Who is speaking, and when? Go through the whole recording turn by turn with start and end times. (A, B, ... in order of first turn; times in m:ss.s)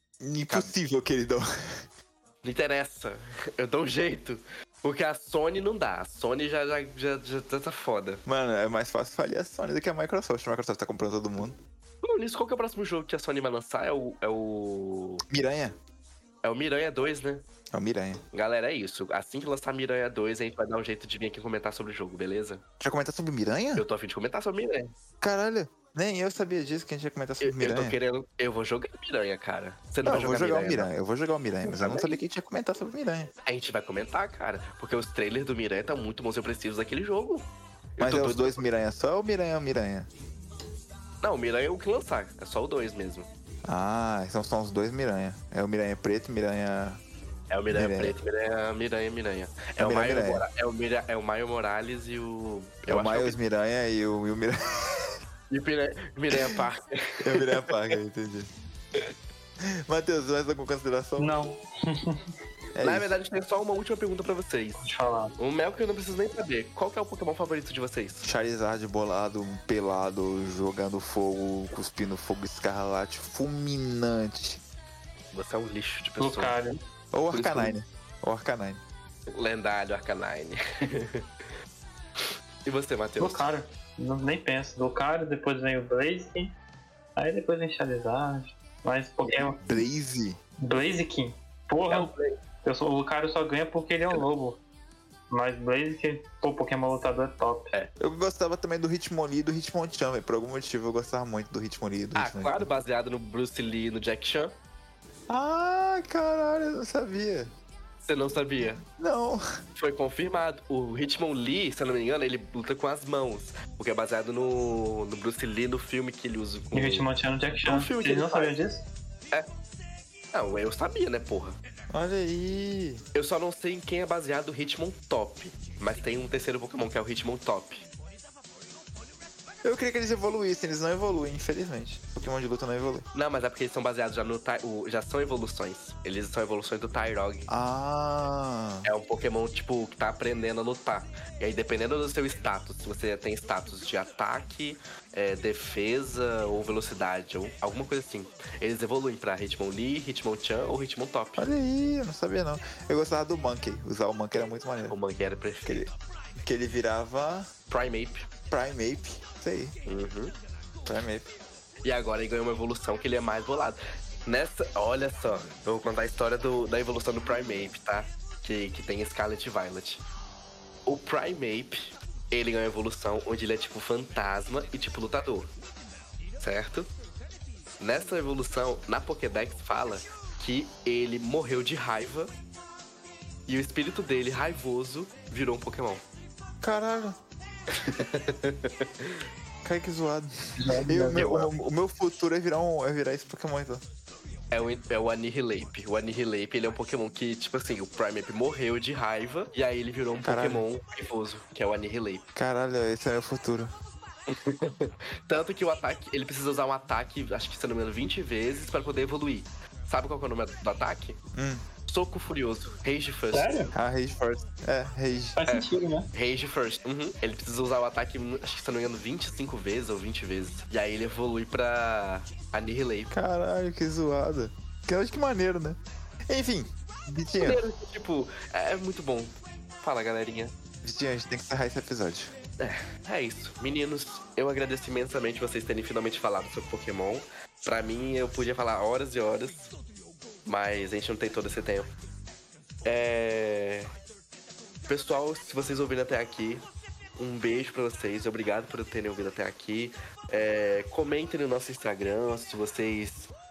0:00.2-0:01.8 A
0:02.4-0:08.2 B
0:08.2-0:11.6 A
0:12.0-0:15.2 B
0:15.3-0:15.8 A
0:16.4-0:17.5 B
0:17.7-0:18.2 A
0:18.3-0:22.6 B
0:22.8-0:23.8 A
0:23.8-0:24.9 B
0:25.2-0:28.0 A
0:27.4-0:30.9 B
0:30.0-0:33.3 A
0:31.6-0:32.2 B
0:33.4-0:38.6 B
0:38.0-0:40.1 A
0:41.2-0:43.3 B
0:43.6-0:47.0 A
0:47.5-0:53.4 B
0:47.7-0:48.2 A
0:49.8-0:50.4 A
0:52.9-0:55.2 A
0:55.5-0:58.0 B
0:56.3-0:56.6 A
0:57.2-0:58.5 A
0:59.9-1:01.3 A
1:01.2-1:02.2 C
1:02.8-1:03.1 A
1:02.8-1:04.8 B
1:04.8-1:05.3 C
1:05.4-1:08.3 B
1:08.2-1:14.6 A
1:15.3-1:16.6 B
1:16.2-1:16.8 C
1:17.1-1:18.8 A
1:17.3-1:17.7 B
1:19.3-1:21.2 B
1:22.2-1:23.5 B
1:23.2-1:26.5 C
1:27.2-1:29.6 C
1:29.2-1:29.6 B
1:29.6-1:30.4 A
1:30.6-1:32.1 C
1:31.9-1:32.4 B
1:32.6-1:34.6 C
1:35.3-1:37.7 C
1:38.0-1:42.7 A
1:42.1-1:44.5 B
1:45.3-1:47.5 A
1:48.0-1:48.8 B
1:48.6-1:49.4 A
1:49.8-1:57.1 B
1:56.7-1:58.8 C
1:57.6-1:58.5 B
2:00.3-2:01.6 B
2:01.9-2:03.0 A
2:03.1-2:07.8 B
2:09.6-2:13.0 A
2:13.1-2:17.5 B
2:17.5-2:18.9 A
2:18.8-2:31.5 B
2:31.4-2:34.9 A
2:34.3-2:35.8 B
2:35.6-2:37.5 A
2:37.7-2:38.3 B
2:38.5-2:39.8 A
2:39.8-2:40.3 B
2:40.8-2:41.3 A
2:41.8-2:50.0 B
2:50.8-2:55.5 B
2:56.4-2:56.9 B
2:57.8-3:02.3 B
3:03.5-3:06.0 B
3:06.6-3:07.2 A
3:07.8-3:09.3 B
3:09.6-3:10.3 A
3:10.6-3:11.2 C
3:10.8-3:13.8 A
3:11.1-3:11.5 B
3:14.5-3:22.2 B
3:20.2-3:20.6 A
3:22.3-3:23.7 A
3:24.3-3:31.2 B
3:31.3-3:31.6 A
3:31.9-3:33.6 B
3:33.3-3:33.7 C
3:33.7-3:35.4 A
3:35.4-3:36.1 C
3:35.5-3:43.1 B
3:43.1-3:45.8 A
3:46.3-3:47.6 A
3:47.4-3:50.5 B
3:50.8-3:52.3 A
3:52.6-3:59.7 B
4:00.4-4:01.9 B
4:02.8-4:03.9 B
4:04.9-4:06.6 B
4:07.2-4:13.3 B